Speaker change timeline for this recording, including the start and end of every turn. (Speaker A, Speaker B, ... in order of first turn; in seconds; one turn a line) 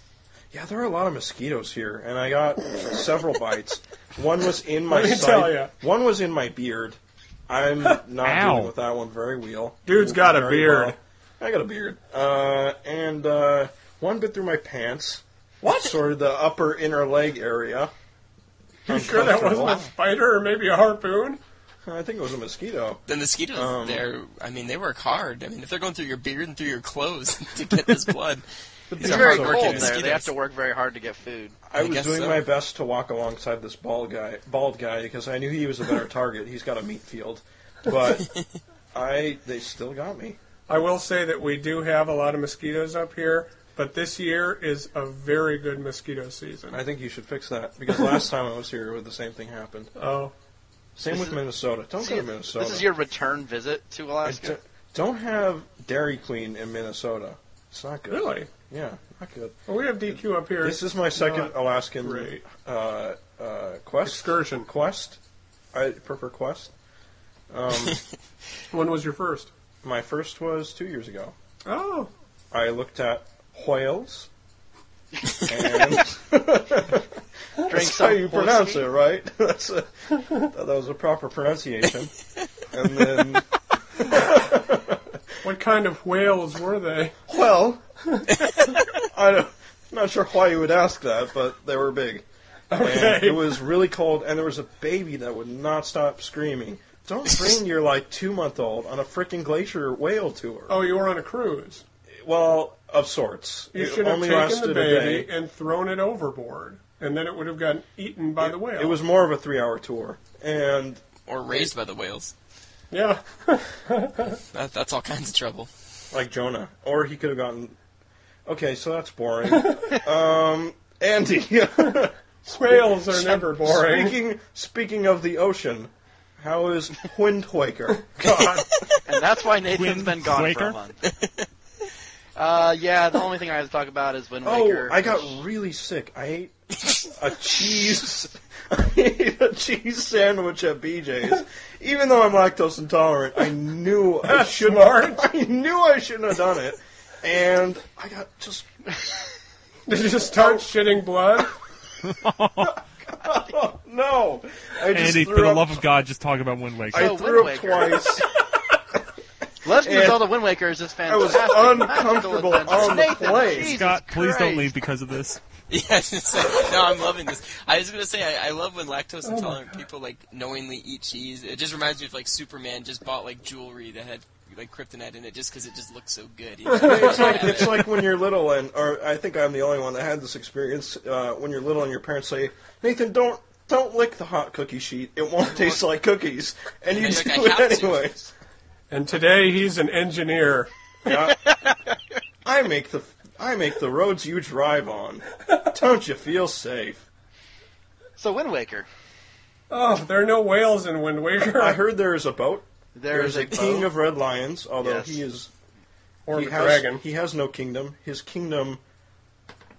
Speaker A: 0.5-7.0
Speaker B: 4.9-5.7
Speaker A: 7.5-17.9
Speaker C: 8.2-8.7
Speaker B: 9.9-11.0
Speaker B: 15.6-16.0
Speaker A: 18.9-19.9
Speaker B: 18.9-21.4
Speaker A: 21.9-23.0
Speaker D: 23.1-28.4
Speaker A: 23.5-24.1
Speaker A: 28.9-30.0
Speaker D: 29.0-30.3
Speaker E: 29.0-31.6
Speaker A: 31.7-38.3
Speaker D: 31.8-32.4
Speaker A: 38.9-40.4
Speaker B: 40.7-46.8
Speaker A: 46.7-49.9
Speaker B: 50.0-50.3
Speaker A: 51.0-52.9
Speaker E: 51.1-51.4
Speaker E: 52.0-54.6
Speaker A: 54.2-65.2
Speaker B: 58.1-58.5
Speaker B: 59.7-62.4
Speaker B: 64.0-64.7
Speaker A: 65.7-66.7
Speaker A: 67.5-68.0
Speaker B: 68.7-69.5
Speaker A: 69.8-71.3
Speaker B: 71.7-72.1
Speaker A: 72.5-74.3
Speaker A: 75.4-82.1
Speaker E: 77.7-78.9
Speaker A: 82.7-85.3
Speaker B: 85.4-87.2
Speaker A: 87.3-87.8
Speaker A: 89.0-92.2
Speaker B: 92.7-93.6
Speaker A: 92.8-100.8
Speaker B: 100.7-101.8
Speaker A: 102.1-105.3
Speaker B: 103.7-109.0
Speaker A: 108.4-111.0
Speaker D: 111.3-112.3
Speaker B: 112.9-114.4
Speaker D: 114.5-115.7
Speaker A: 116.1-117.8
Speaker A: 118.5-128.7
Speaker B: 122.5-124.2
Speaker B: 128.2-128.7
Speaker E: 129.1-131.0
Speaker C: 129.7-130.8
Speaker D: 131.1-131.5
Speaker E: 132.4-135.4
Speaker A: 134.4-148.7
Speaker B: 144.2-145.2
Speaker B: 149.9-151.6
Speaker A: 150.3-150.7
Speaker C: 152.0-152.8
Speaker A: 153.1-155.8
Speaker C: 154.9-157.2
Speaker A: 156.9-159.0
Speaker E: 156.9-158.2
Speaker E: 159.6-164.7
Speaker A: 159.7-160.3
Speaker A: 161.1-163.8
Speaker C: 163.5-165.4
Speaker D: 165.7-177.9
Speaker B: 169.3-169.6
Speaker B: 176.7-177.6
Speaker A: 176.7-188.3
Speaker D: 186.9-188.1
Speaker B: 188.9-190.7
Speaker A: 191.1-191.4
Speaker E: 191.5-191.8
Speaker A: 192.4-197.1
Speaker E: 198.2-198.9
Speaker B: 199.7-201.8
Speaker A: 201.5-205.5
Speaker E: 203.0-203.9
Speaker E: 204.8-205.2
Speaker B: 206.3-207.0
Speaker A: 206.3-208.8